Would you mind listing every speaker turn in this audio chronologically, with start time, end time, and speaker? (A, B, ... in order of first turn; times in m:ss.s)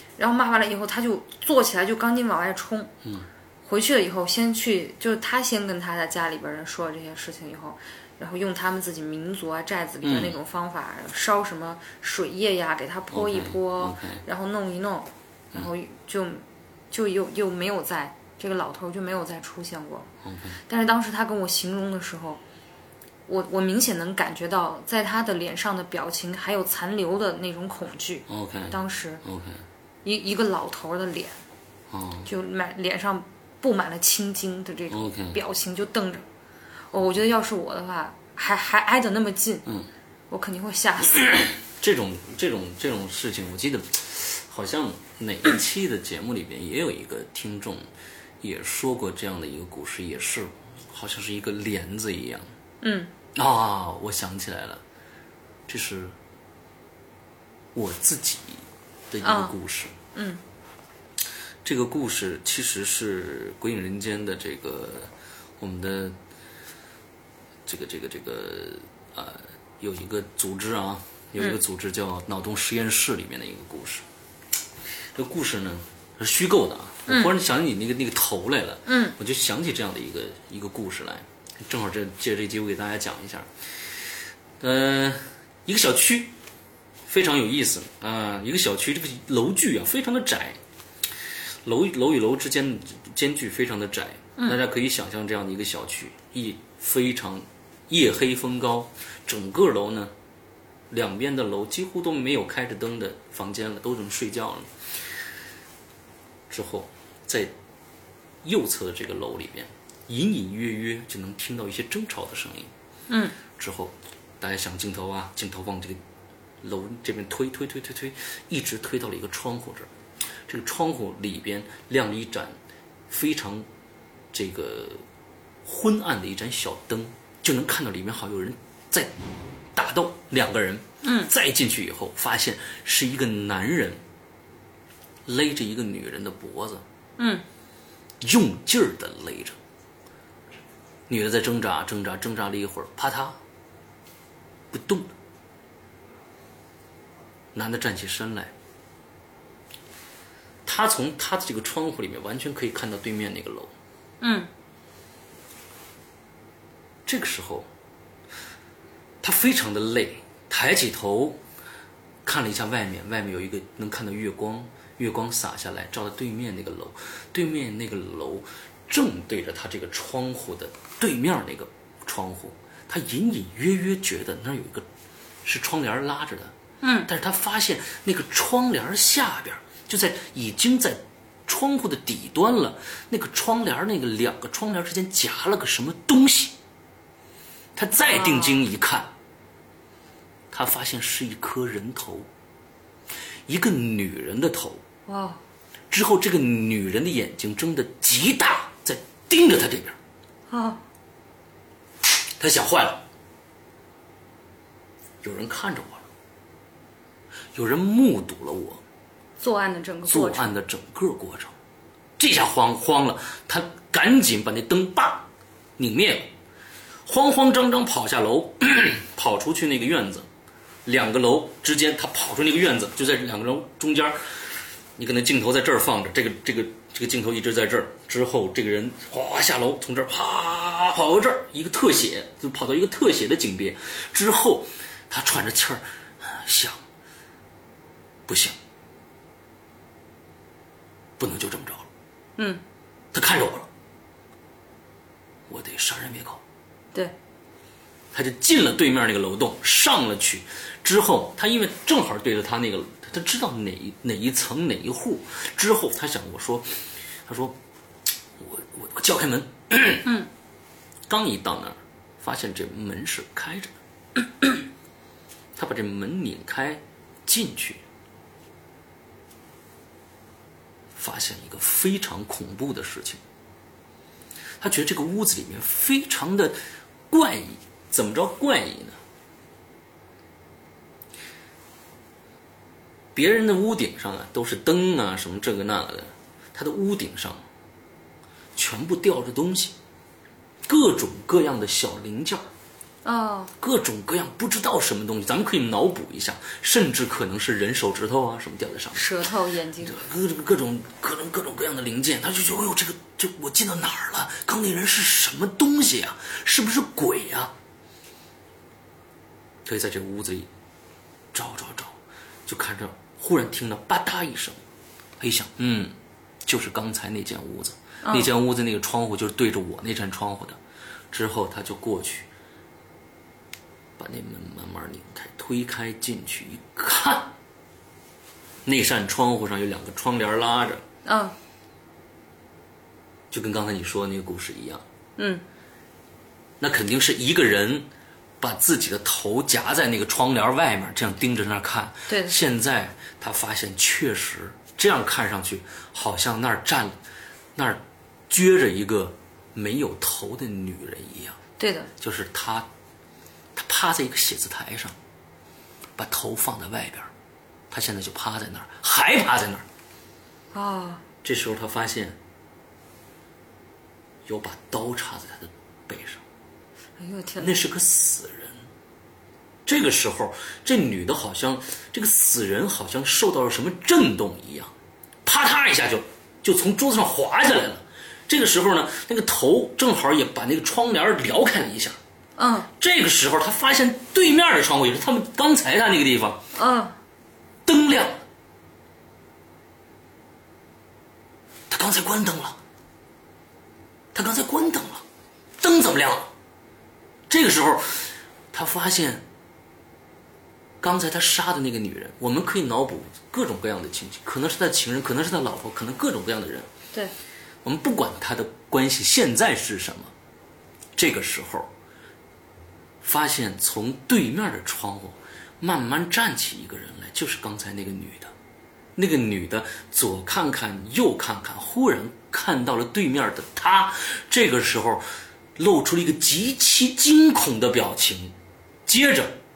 0:00.2-0:02.9 A
0:03.6-0:20.1 A
0:10.0-0:10.3 B
0:13.1-0:14.2 B
0:20.2-0:20.6 B
0:20.7-0:22.4 A
0:23.3-0:29.2 A
0:28.3-0:29.6 B
0:30.0-0:31.4 A
0:31.9-0:32.3 B
0:32.2-0:36.2 A
0:34.9-0:35.4 B
0:36.9-0:39.7 A
0:40.3-0:41.4 A
0:41.2-0:47.8 B
0:48.4-0:52.5 B
0:52.8-0:53.1 A
0:53.3-0:54.8 B
0:55.7-0:56.1 B
0:57.7-0:59.9 B
0:59.2-0:59.5 A
1:00.1-1:00.4 A
1:01.6-1:06.2 B
1:07.6-1:14.0 B
1:15.1-1:23.5 B
1:18.9-1:19.1 A
1:24.6-1:26.3 B
1:27.1-1:30.6 B
1:31.6-1:40.1 B
1:40.9-1:44.7 B
1:46.5-1:47.5 B
1:48.4-1:52.7 B
1:53.1-1:53.4 A
1:53.6-1:56.0 B
1:56.6-1:59.9 B
2:00.5-2:02.6 B
2:03.1-2:03.7 B
2:04.3-2:05.0 B
2:05.6-2:09.2 B
2:09.7-2:14.0 B
2:11.0-2:11.3 A
2:15.3-2:16.8 B
2:17.2-2:17.4 A
2:18.2-2:19.6 B
2:21.1-2:23.4 B
2:24.7-2:25.1 B
2:27.5-2:28.5 B
2:30.6-2:33.7 B
2:34.2-2:34.5 A
2:37.0-2:37.7 B
2:39.2-2:41.4 B
2:42.2-2:54.8 B
2:55.4-2:56.5 B
2:56.8-2:57.1 A
2:57.0-3:06.5 B
3:07.8-3:09.1 B
3:08.0-3:08.6 A
3:10.5-3:12.3 B
3:13.5-3:14.8 B
3:15.1-3:15.4 A
3:15.9-3:20.0 B
3:20.5-3:20.8 A
3:22.4-3:23.0 B
3:25.2-3:26.0 B
3:27.5-3:28.8 B
3:29.4-3:30.5 A
3:30.1-3:31.5 B
3:32.2-3:35.2 B
3:35.8-3:36.3 B
3:37.0-3:40.3 B
3:40.8-3:44.2 B
3:45.0-3:56.8 B
3:58.3-3:58.6 B
4:01.2-4:01.9 B
4:02.4-4:02.6 A
4:03.1-4:03.7 B
4:05.5-4:06.4 B
4:08.1-4:17.6 B
4:18.4-4:20.1 B
4:21.1-4:23.7 B
4:25.6-4:27.8 B
4:30.9-4:33.2 B
4:34.6-4:36.6 B
4:37.1-4:39.0 B
4:43.1-4:47.4 B
4:48.6-4:49.7 B
4:50.6-4:52.4 B
4:53.0-4:53.5 A
4:53.6-4:59.1 B
4:58.9-5:00.0 A
4:59.8-5:07.5 B
5:09.6-5:10.5 B
5:11.3-5:12.0 B
5:12.5-5:14.6 B
5:15.2-5:15.9 B
5:16.4-5:20.6 B
5:18.0-5:18.3 A
5:21.1-5:22.3 B
5:24.0-5:27.3 B
5:28.6-5:30.8 B
5:31.0-5:31.4 A
5:33.3-5:34.8 B
5:35.2-5:35.4 A
5:36.6-5:37.9 B
5:38.4-5:47.0 B
5:42.1-5:42.4 A
5:47.6-5:51.4 B
5:51.6-5:51.9 A
5:52.0-5:52.7 B
5:53.5-5:55.0 B
5:56.0-5:57.1 B
5:57.7-5:59.6 B
6:00.5-6:01.0 A
6:01.2-6:02.2 B
6:04.3-6:06.2 B
6:07.0-6:07.5 A
6:07.4-6:08.6 B
6:09.6-6:14.7 B
6:15.2-6:22.0 B
6:22.4-6:22.7 A
6:22.8-6:26.4 B
6:26.5-6:27.0 A
6:27.6-6:28.2 B
6:31.7-6:32.6 B
6:34.1-6:35.0 B
6:35.6-6:36.3 B
6:37.3-6:39.2 B
6:40.8-6:46.7 B
6:47.6-6:50.1 B
6:51.0-6:51.7 B
6:53.0-6:58.3 B
6:59.0-7:05.0 B
7:05.6-7:08.3 B
7:08.9-7:09.4 B